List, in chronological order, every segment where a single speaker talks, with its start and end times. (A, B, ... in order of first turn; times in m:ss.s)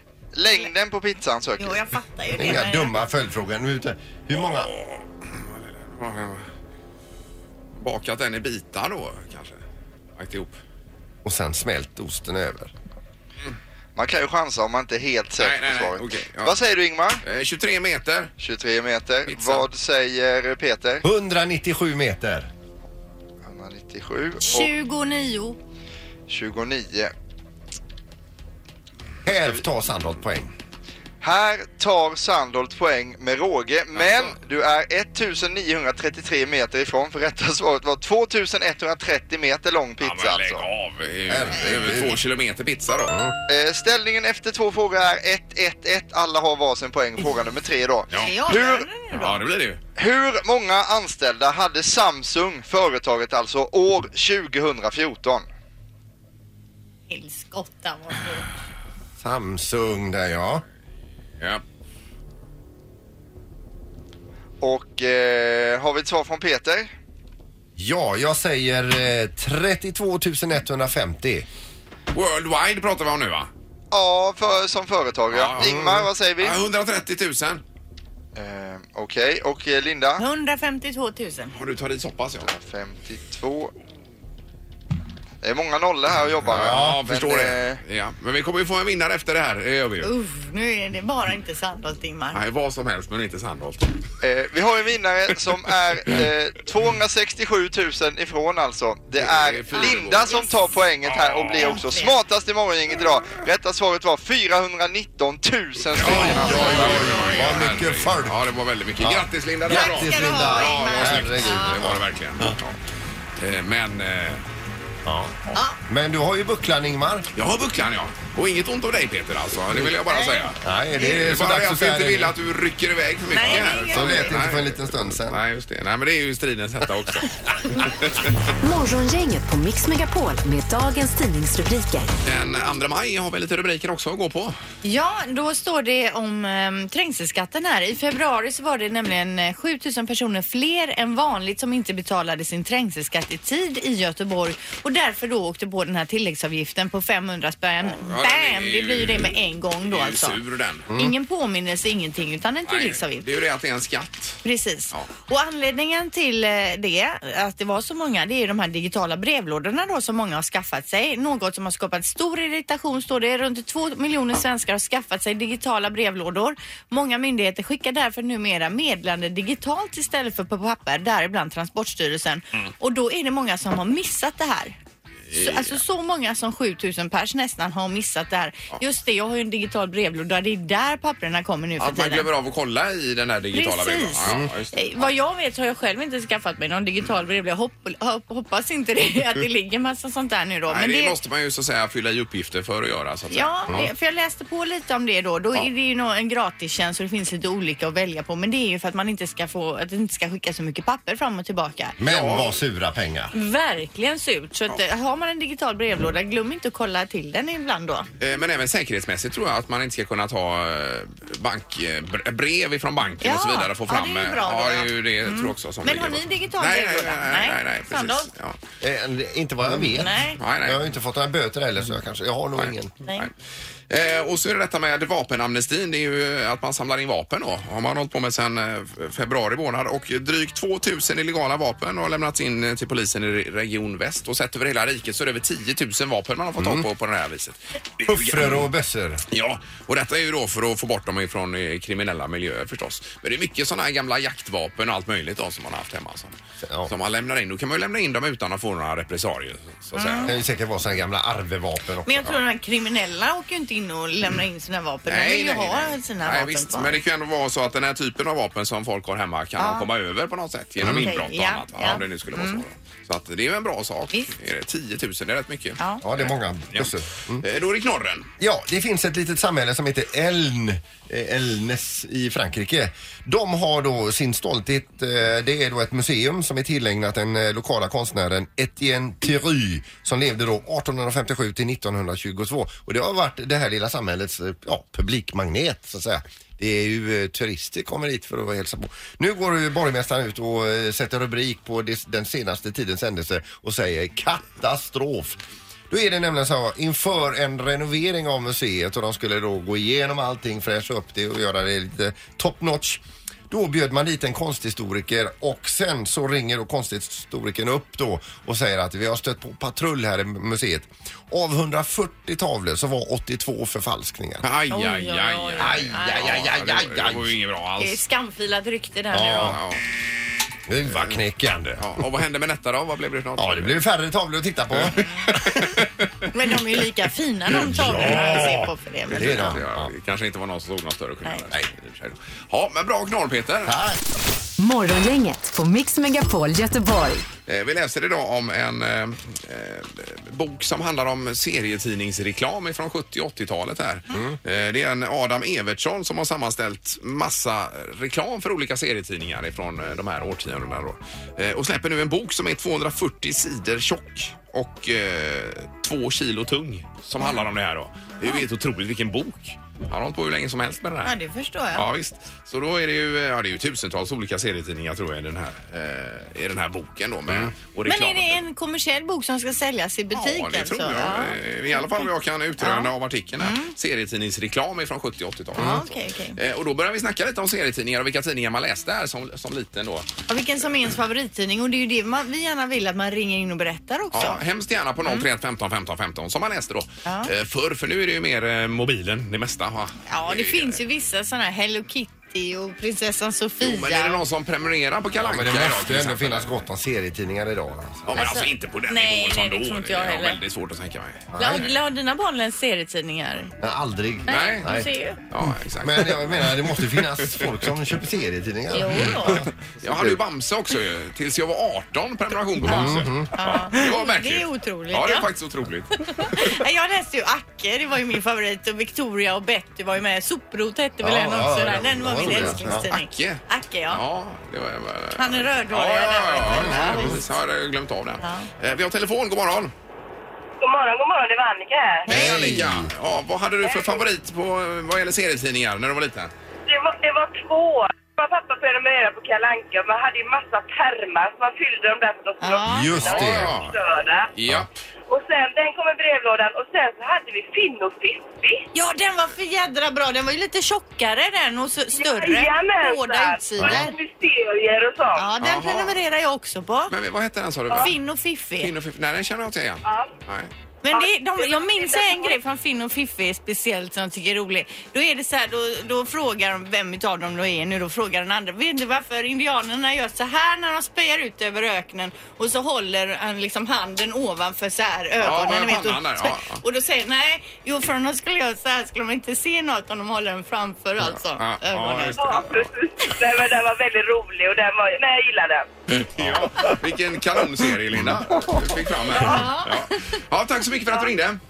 0:00.3-0:01.8 A
0:01.6-0:02.9 B
0:02.4-0:04.7 C
0:04.5-0:06.4 D
0:07.8-0:09.6 D
0:10.2-0:10.6 D
0:11.2-0:12.7 C
0:14.0-0:17.2 A
0:15.4-0:16.6 D
0:17.2-0:18.3 D
0:18.4-0:21.0 A
0:19.3-0:19.6 D
0:21.0-0:22.5 C
0:23.4-0:24.7 A
0:24.4-0:25.6 B
0:26.3-0:27.1 A
0:29.2-0:30.5 C
0:31.2-0:40.6 A
0:33.9-0:34.3 D
0:40.0-0:43.1 D
0:41.3-0:42.2 C
0:43.1-0:43.4 C
0:43.5-0:48.8 A
0:48.1-0:48.4 D
0:48.2-0:49.4 B
0:49.1-0:49.8 D
0:50.0-0:55.5 A
0:57.1-0:58.5 B
0:59.2-1:00.6 C
1:04.6-1:06.9 A
1:07.8-1:11.5 C
1:12.1-1:13.5 D
1:13.9-1:16.6 A
1:15.3-1:15.7 D
1:15.6-1:16.0 C
1:16.4-1:17.6 D
1:18.4-1:20.2 A
1:20.2-1:21.5 B
1:21.5-1:22.5 D
1:22.4-1:23.7 A
1:25.4-1:27.8 A
1:26.5-1:27.0 C
1:26.5-1:30.1 D
1:30.0-1:32.4 B
1:32.3-1:34.0 D
1:34.2-1:47.2 A
1:39.2-1:40.5 D
1:39.7-1:40.5 B
1:41.0-1:41.8 D
1:41.5-1:42.2 B
1:46.0-1:52.8 D
1:46.0-1:48.4 C
1:46.4-1:47.5 B
1:49.0-1:52.5 C
1:49.7-1:51.8 B
1:53.4-1:54.4 D
1:55.0-1:57.3 C
1:57.3-2:08.3 D
2:00.1-2:00.5 B
2:00.6-2:02.3 C
2:03.3-2:04.3 B
2:03.4-2:05.4 C
2:08.6-2:12.1 E
2:12.2-2:14.6 D
2:14.8-2:30.4 B
2:27.9-2:30.9 D
2:30.9-2:31.1 C
2:30.9-2:33.2 B
2:32.6-2:35.1 D
2:34.4-2:54.8 B
2:55.3-2:55.8 D
2:55.3-3:02.3 B
3:01.8-3:05.1 D
3:03.5-3:11.2 B
3:04.2-3:04.5 C
3:10.7-3:13.8 D
3:13.3-3:22.0 B
3:22.0-3:23.3 C
3:22.0-3:22.6 D
3:23.3-3:28.1 B
3:28.2-3:38.6 D
3:33.2-3:38.3 B
3:38.8-3:43.0 C
3:39.9-3:40.4 B
3:40.4-3:40.9 D
3:42.6-3:43.3 D
3:43.9-3:58.7 D
3:56.6-3:56.9 C
3:58.0-3:59.2 C
3:59.3-4:10.4 D
4:06.6-4:06.9 C
4:09.9-4:10.3 B
4:10.2-4:12.4 C
4:12.0-4:17.0 B
4:15.0-4:28.3 D
4:19.6-4:19.9 B
4:20.8-4:21.1 C
4:20.8-4:22.6 B
4:26.0-4:27.4 C
4:28.4-5:14.4 C
5:14.4-5:18.0 D
5:14.7-5:16.4 B
5:15.6-5:17.3 C
5:17.8-5:19.6 B
5:19.1-5:19.6 C
5:19.4-5:19.8 D
5:20.7-5:22.0 C
5:20.8-5:21.2 D
5:21.7-5:23.8 D
5:23.4-5:25.8 C
5:24.7-5:25.9 D
5:26.3-5:29.5 B
5:27.5-5:29.9 C
5:28.0-5:28.5 D
5:29.1-5:33.8 D
5:33.6-5:34.0 C
5:34.6-5:37.3 E
5:37.4-6:01.1 D
5:44.1-5:44.4 C
6:01.0-6:01.8 B
6:01.7-6:08.4 D
6:07.3-6:07.5 C
6:07.8-6:12.1 B
6:10.1-6:20.1 D
6:12.6-6:13.7 B
6:15.6-6:16.4 B
6:20.3-6:24.4 B
6:24.1-6:30.8 D
6:27.0-6:27.3 B
6:30.1-6:34.2 B
6:33.6-6:36.5 D
6:35.2-6:38.3 C
6:38.1-6:41.7 D
6:38.1-6:40.4 B
6:41.3-6:41.7 C
6:41.4-6:43.5 B
6:43.6-6:44.9 C
6:44.3-6:44.7 D
6:44.3-6:45.2 B
6:45.3-6:47.6 D
6:45.8-6:50.2 C
6:48.7-6:49.4 B
6:49.2-6:56.5 D
6:52.6-6:53.3 C
6:52.7-6:55.3 B
6:56.0-7:04.0 B
7:01.0-7:02.8 C
7:02.2-7:09.7 D
7:05.2-7:07.2 B
7:06.5-7:07.2 C
7:08.2-7:08.5 B
7:10.6-7:12.1 F
7:12.1-7:12.9 C
7:12.1-7:16.3 D
7:12.1-7:12.4 B
7:13.6-7:14.0 F
7:16.7-7:24.3 F
7:22.4-7:23.0 B
7:22.6-7:23.5 C
7:23.0-7:23.8 D
7:24.3-7:24.8 D
7:25.1-7:28.6 F
7:28.7-7:34.0 B
7:32.0-7:35.3 F
7:35.1-7:36.9 B
7:35.4-7:36.0 D
7:36.9-7:37.9 D
7:37.7-7:38.7 B
7:38.6-7:40.5 D
7:39.8-7:40.1 F
7:40.8-8:02.3 B
7:40.9-7:42.4 F
7:55.2-7:56.6 D
8:01.2-8:02.7 D
8:02.2-8:05.7 F
8:05.9-8:11.4 D
8:06.2-8:06.7 C
8:09.2-8:09.9 B